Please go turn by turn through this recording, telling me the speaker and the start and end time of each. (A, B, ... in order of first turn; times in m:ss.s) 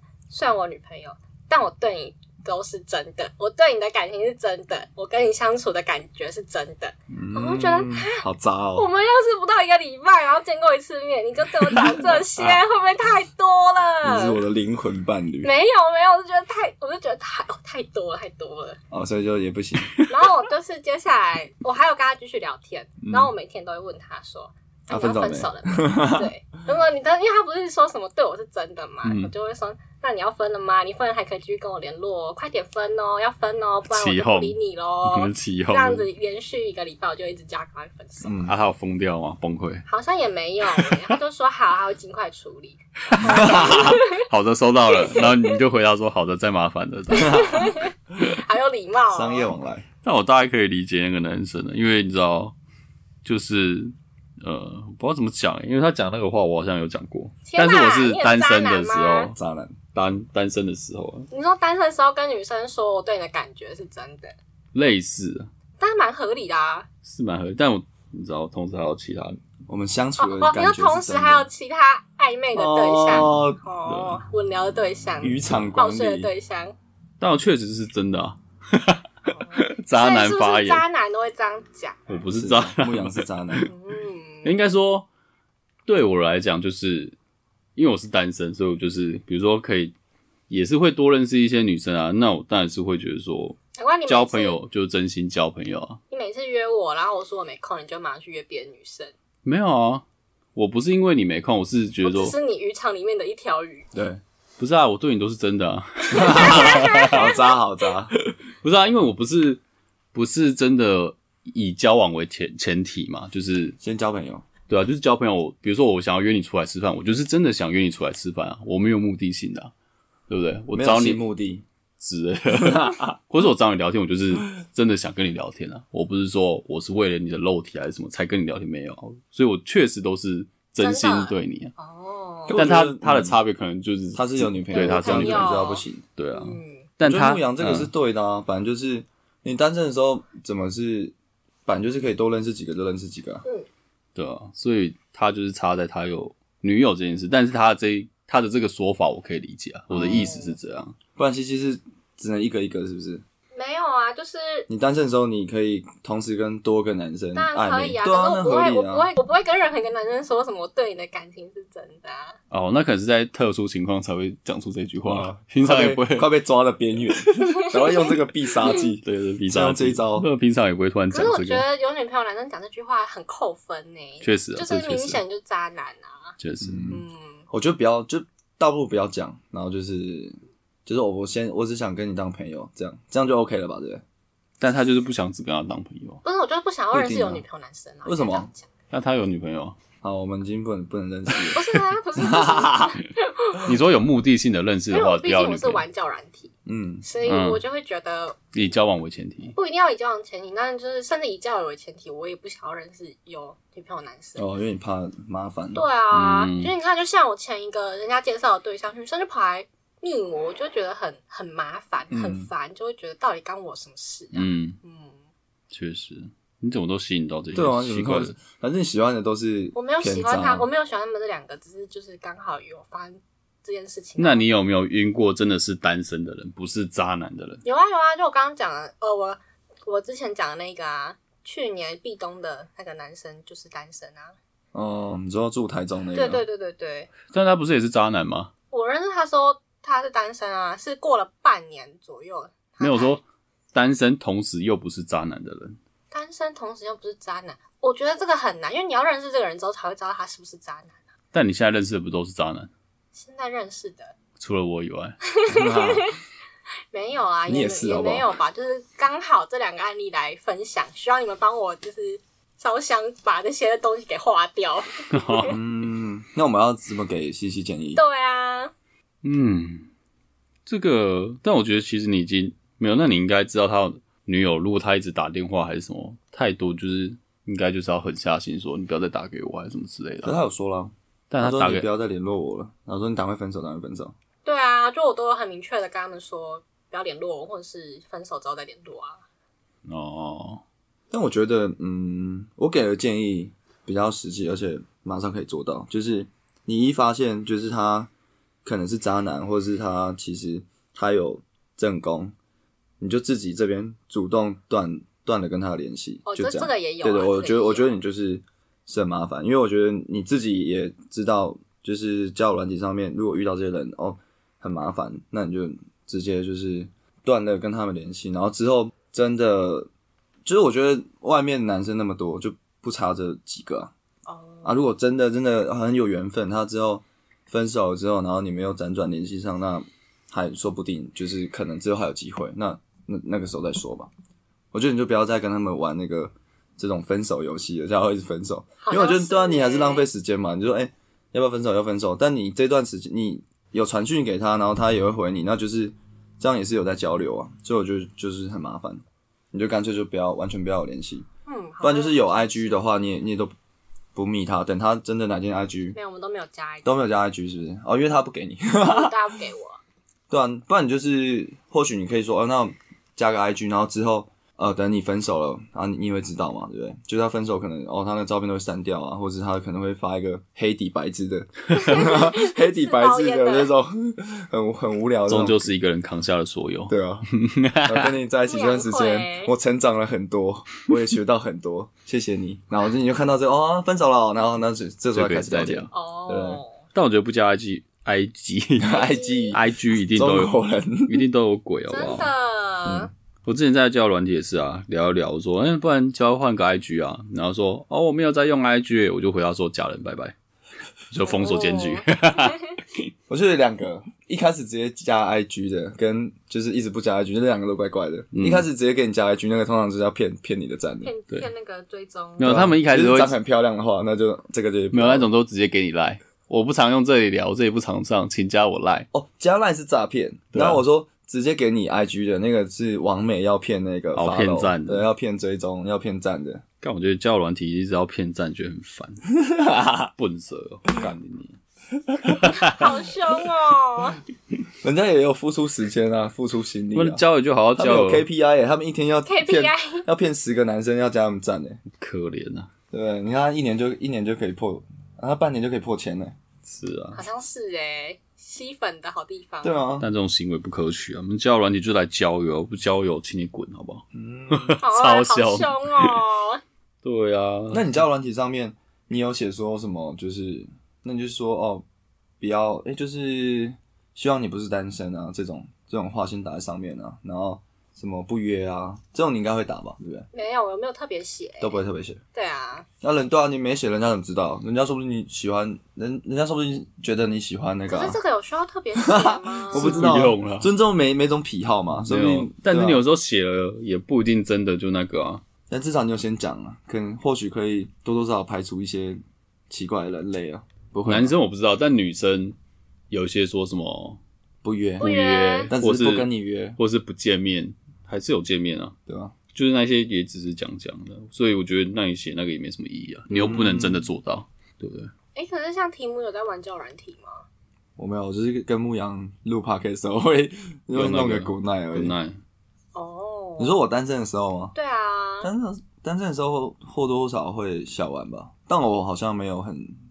0:00.3-0:08.2 A
0:07.1-0:08.9 B
0:08.8-0:14.4 A
0:14.0-0:15.5 B
0:15.4-0:18.8 A
0:18.9-0:20.0 B
0:20.1-0:38.4 A
0:24.9-0:26.3 B
0:29.0-0:29.3 C
0:33.9-0:36.1 C
0:38.2-0:38.5 B
0:38.4-0:39.8 C
0:39.9-0:44.2 A
0:43.1-0:47.6 C
0:43.2-0:43.9 B
0:44.9-0:45.6 A
0:47.1-0:49.5 A
0:47.2-0:47.6 B
0:49.1-0:49.8 B
0:50.0-0:52.5 C
0:53.2-0:59.3 C
0:57.4-0:59.3 A
0:59.3-0:59.8 B
0:59.9-1:01.3 C
1:01.3-1:04.3 A
1:04.7-1:05.5 C
1:05.8-1:06.9 A
1:07.0-1:09.4 C
1:09.7-1:11.5 B
1:10.2-1:16.8 A
1:12.5-1:13.6 B
1:13.8-1:14.2 C
1:15.2-1:16.3 B
1:17.2-1:20.8 C
1:19.3-1:22.0 A
1:22.1-1:23.7 C
1:22.3-1:23.7 B
1:23.6-1:24.5 A
1:24.4-1:25.1 C
1:25.8-1:27.2 C
1:27.8-1:29.9 C
1:30.5-1:36.0 C
1:33.8-1:34.6 A
1:36.1-1:39.1 A
1:39.4-1:40.0 C
1:40.5-1:42.3 C
1:42.0-1:43.9 A
1:43.9-1:44.2 B
1:44.6-1:47.3 C
1:46.1-1:47.4 A
1:46.1-1:48.1 B
1:48.3-1:49.6 C
1:50.1-1:53.8 C
1:53.8-1:54.4 B
1:54.7-1:59.7 C
2:00.3-2:01.2 C
2:00.7-2:01.6 B
2:02.0-2:11.7 C
2:02.5-2:03.1 B
2:10.8-2:12.7 A
2:12.5-2:13.4 B
2:12.5-2:15.6 C
2:14.1-2:16.0 B
2:14.7-2:16.9 A
2:16.2-2:17.9 C
2:17.0-2:21.1 B
2:21.6-2:23.4 B
2:24.2-2:31.0 C
2:29.9-2:30.3 B
2:30.0-2:30.6 A
2:31.2-2:33.2 B
2:33.5-2:34.7 A
2:34.7-2:39.1 B
2:37.3-2:42.4 A
2:42.5-2:46.3 C
2:45.0-2:50.3 B
2:47.7-2:48.0 A
2:48.7-2:51.6 C
2:51.1-2:56.4 A
2:54.2-2:55.2 C
2:56.4-2:56.9 C
2:56.6-3:04.0 B
2:56.9-2:57.4 A
3:04.6-3:06.2 C
3:06.2-3:08.7 A
3:06.9-3:07.4 B
3:08.0-3:08.5 B
3:08.9-3:09.8 C
3:10.0-3:11.6 B
3:11.5-3:13.7 A
3:12.2-3:12.9 B
3:13.6-3:15.8 C
3:14.9-3:18.4 A
3:16.6-3:17.0 B
3:17.2-3:17.6 C
3:18.5-3:19.5 C
3:19.5-3:24.4 A
3:24.4-3:25.9 B
3:25.7-3:35.2 A
3:26.1-3:26.7 C
3:32.1-3:32.5 B
3:34.3-3:34.8 C
3:35.7-3:38.4 C
3:37.5-3:40.7 B
3:39.7-3:44.4 A
3:44.2-3:47.6 C
3:47.6-3:54.3 A
3:54.7-3:56.4 B
3:56.1-3:57.1 A
3:57.3-3:58.5 C
3:58.7-4:03.2 A
4:02.8-4:05.8 C
4:06.1-4:11.0 A
4:11.3-4:12.7 C
4:13.1-4:14.1 A
4:14.4-4:15.2 C
4:15.3-4:16.1 A
4:15.5-4:16.1 B
4:16.9-4:25.5 A
4:17.5-4:18.3 B
4:25.1-4:25.6 C
4:25.5-4:28.0 B
4:27.9-4:28.7 A
4:29.2-4:29.9 C
4:30.6-4:40.4 C
4:40.2-4:44.1 B
4:41.3-4:41.9 C
4:44.4-4:49.2 A
4:49.8-4:50.6 C
4:51.1-4:58.1 B
4:58.6-5:02.3 B
5:03.0-5:19.9 B
5:06.2-5:07.9 A
5:20.4-5:23.9 B
5:24.2-5:24.8 A
5:24.6-5:34.1 B
5:34.7-5:51.2 B
5:38.8-5:40.1 A
5:51.4-5:52.8 A
5:51.8-5:53.5 B
5:54.1-5:56.0 B
5:55.9-5:56.9 A
5:56.8-5:59.2 B
5:58.8-5:59.8 A
6:00.3-6:15.7 B
6:11.7-6:13.7 A
6:15.3-6:18.2 C
6:16.9-6:17.3 B
6:17.8-6:26.6 B
6:18.5-6:19.5 A
6:25.1-6:25.9 C
6:25.9-6:26.8 A
6:26.9-6:28.9 C
6:28.8-6:31.2 B
6:28.9-6:29.6 A
6:29.5-6:30.5 C
6:31.0-6:32.3 C
6:31.9-6:33.1 A
6:33.4-6:40.3 C
6:41.1-6:43.1 C
6:41.2-6:42.6 A
6:43.3-6:51.1 B
6:48.3-6:48.6 C
6:51.0-6:52.6 A
6:52.4-6:53.3 C
6:52.4-6:55.3 B
6:54.9-6:59.1 C
6:59.1-7:06.6 B
7:00.5-7:00.8 C
7:04.1-7:05.0 C
7:06.8-7:09.3 C
7:09.4-7:10.0 B
7:09.9-7:11.6 C
7:12.2-7:12.8 C
7:12.5-7:14.2 A
7:14.8-7:17.2 B
7:16.9-7:18.2 C
7:17.7-7:21.8 B
7:19.2-7:20.1 A
7:22.0-7:22.7 C
7:22.9-7:26.4 B
7:26.6-7:27.2 C
7:27.1-7:29.8 A
7:29.6-7:30.1 B
7:30.0-7:36.2 C
7:34.1-7:34.8 B
7:34.8-7:36.6 A
7:37.0-7:37.9 C
7:37.7-7:41.8 B
7:42.4-7:50.3 B
7:50.3-7:52.9 A
7:51.6-7:52.2 B
7:53.0-7:58.2 B
7:57.9-8:00.1 A
7:59.0-8:03.0 B
7:59.7-8:00.7 C
8:02.0-8:05.4 C
8:05.7-8:11.3 B
8:11.0-8:12.6 C
8:13.1-8:14.2 C
8:14.6-8:15.1 B
8:15.0-8:15.7 A
8:15.0-8:18.9 C
8:15.7-8:16.8 B
8:19.1-8:19.3 B
8:19.5-8:25.1 C
8:23.3-8:24.1 B
8:25.3-8:27.4 A
8:28.0-8:32.1 B
8:30.9-8:32.4 C
8:32.9-8:33.8 A
8:33.6-8:34.7 B
8:34.7-8:35.5 A
8:35.4-8:40.0 B